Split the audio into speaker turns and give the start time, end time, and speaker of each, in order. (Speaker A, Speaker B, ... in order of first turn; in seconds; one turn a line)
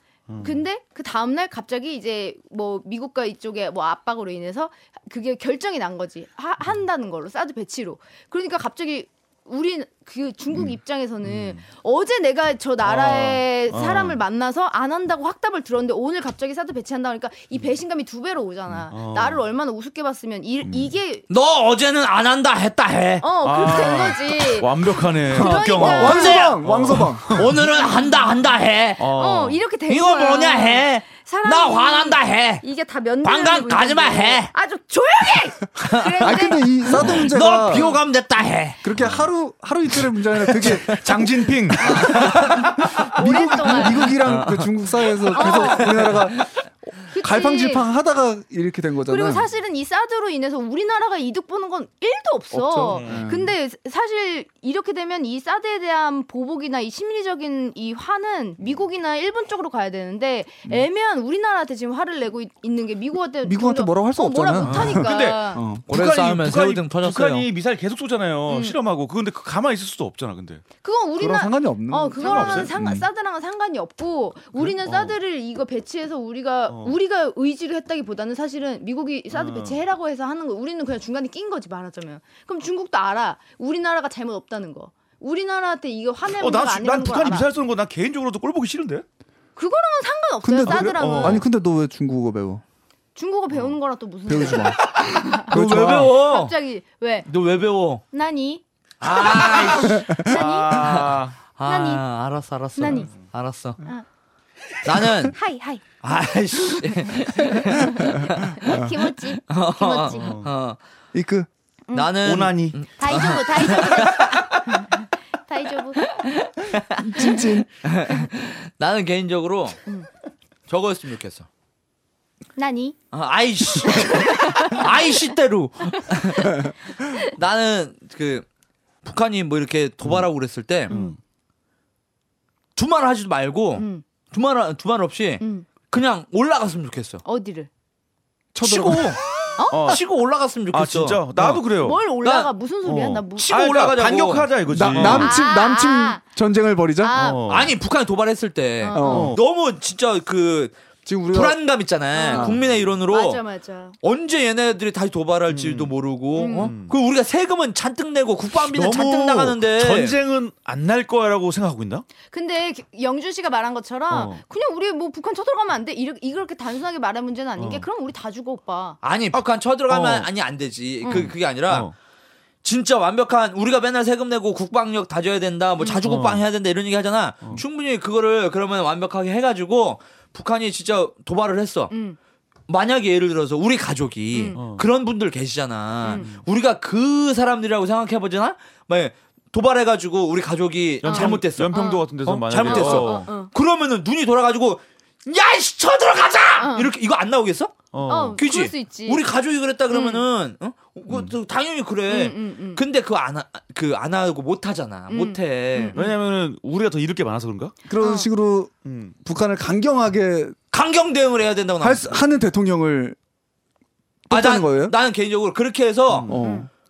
Speaker A: 0.3-0.6
Speaker B: 0.4-21.2
Speaker A: 11.2-11.6
Speaker A: 12.8-14.2
Speaker A: 18.9-19.4
Speaker C: 21.3-23.3
Speaker B: 23.2-26.6
Speaker A: 23.4-27.5
Speaker C: 25.4-29.1
Speaker D: 25.8-27.4
Speaker A: 29.0-29.6
Speaker B: 29.1-38.0
Speaker C: 29.9-32.6
Speaker C: 33.2-34.5
Speaker C: 35.9-36.4
Speaker D: 36.2-38.0
Speaker C: 36.9-38.9
Speaker D: 38.8-49.5
Speaker C: 40.4-41.0
Speaker A: 40.6-42.5
Speaker C: 41.8-42.8
Speaker B: 41.8-44.1
Speaker C: 43.9-46.5
Speaker B: 45.3-45.9
Speaker B: 47.1-47.9
Speaker B: 49.1-65.6
Speaker A: 52.5-53.3
Speaker D: 52.8-53.5
Speaker D: 63.4-65.8
Speaker A: 64.6-70.6
Speaker C: 65.9-67.5
Speaker B: 68.5-68.8
Speaker B: 70.8-87.5
Speaker D: 71.2-73.1
Speaker A: 72.2-72.7
Speaker A: 74.7-75.1
Speaker A: 76.7-76.9
Speaker A: 79.3-79.8
Speaker A: 86.3-89.0
Speaker B: 89.6-91.5
Speaker D: 90.4-92.6
Speaker A: 90.6-91.4
Speaker B: 93.1-97.3
Speaker D: 94.3-96.1
Speaker C: 95.4-96.5
Speaker C: 97.3-98.0
Speaker B: 98.1-98.6
Speaker C: 99.0-103.8
Speaker A: 99.1-101.4
Speaker B: 100.1-100.9
Speaker B: 101.6-102.0
Speaker B: 102.8-103.1
Speaker A: 102.9-103.3
Speaker C: 104.8-105.4
Speaker B: 105.3-105.8
Speaker C: 106.0-108.7
Speaker B: 107.4-110.3
Speaker D: 108.6-108.9
Speaker C: 109.5-110.8
Speaker A: 110.1-110.5
Speaker D: 111.1-111.5
Speaker B: 111.9-112.1
Speaker C: 111.9-114.9
Speaker A: 112.2-112.8
Speaker B: 113.0-116.0
Speaker C: 116.1-119.8
Speaker D: 117.0-117.7
Speaker C: 120.7-121.5
Speaker B: 122.6-123.0
Speaker C: 123.1-128.4
Speaker B: 123.9-124.9
Speaker C: 129.0-130.9
Speaker B: 130.9-131.2
Speaker A: 130.9-131.2
Speaker C: 132.8-137.2
Speaker B: 133.8-134.0
Speaker B: 135.4-135.7
Speaker B: 137.2-137.7
Speaker D: 138.5-139.2
Speaker C: 138.6-139.2
Speaker B: 139.6-139.9
Speaker A: 139.7-140.0
Speaker C: 139.8-141.6
Speaker A: 140.7-142.0
Speaker B: 141.8-143.5
Speaker C: 142.2-142.5
Speaker A: 142.8-145.4
Speaker C: 143.4-145.2
Speaker D: 144.7-147.2
Speaker B: 145.1-146.2
Speaker B: 147.0-147.5
Speaker A: 147.1-147.7
Speaker C: 147.5-150.8
Speaker B: 148.8-149.3
Speaker D: 148.9-149.4
Speaker A: 149.1-149.4
Speaker D: 151.1-151.6
Speaker C: 151.3-153.4
Speaker B: 152.1-152.6
Speaker D: 152.3-152.6
Speaker B: 153.1-153.9
Speaker C: 154.0-160.2
Speaker A: 155.5-156.9
Speaker B: 156.4-156.7
Speaker A: 158.6-162.1
Speaker B: 162.3-169.0
Speaker A: 164.1-164.4
Speaker A: 167.6-167.9
Speaker C: 169.0-171.9
Speaker A: 169.3-170.3
Speaker B: 171.0-171.3
Speaker A: 171.1-171.9
Speaker C: 172.6-181.9
Speaker B: 175.8-176.1
Speaker A: 176.1-176.4
Speaker B: 181.9-182.2
Speaker C: 182.7-197.8
Speaker B: 184.3-184.6
Speaker A: 184.5-184.9
Speaker B: 186.0-186.3
Speaker A: 186.1-186.4
Speaker A: 191.0-193.3
Speaker B: 191.0-192.1
Speaker B: 192.6-193.5
Speaker B: 196.6-196.9
Speaker A: 197.9-198.4
Speaker B: 198.1-199.2
Speaker C: 198.4-206.0
Speaker B: 199.9-200.2
Speaker B: 202.1-202.8
Speaker B: 205.1-206.1
Speaker A: 205.9-207.7
Speaker D: 207.9-208.7
Speaker B: 208.0-208.3
Speaker A: 208.8-209.2
Speaker D: 209.2-210.6
Speaker C: 210.7-212.2
Speaker D: 211.8-213.2
Speaker D: 214.3-214.9
Speaker C: 214.3-216.3
Speaker A: 216.1-216.4
Speaker D: 216.3-216.7
Speaker B: 216.4-216.7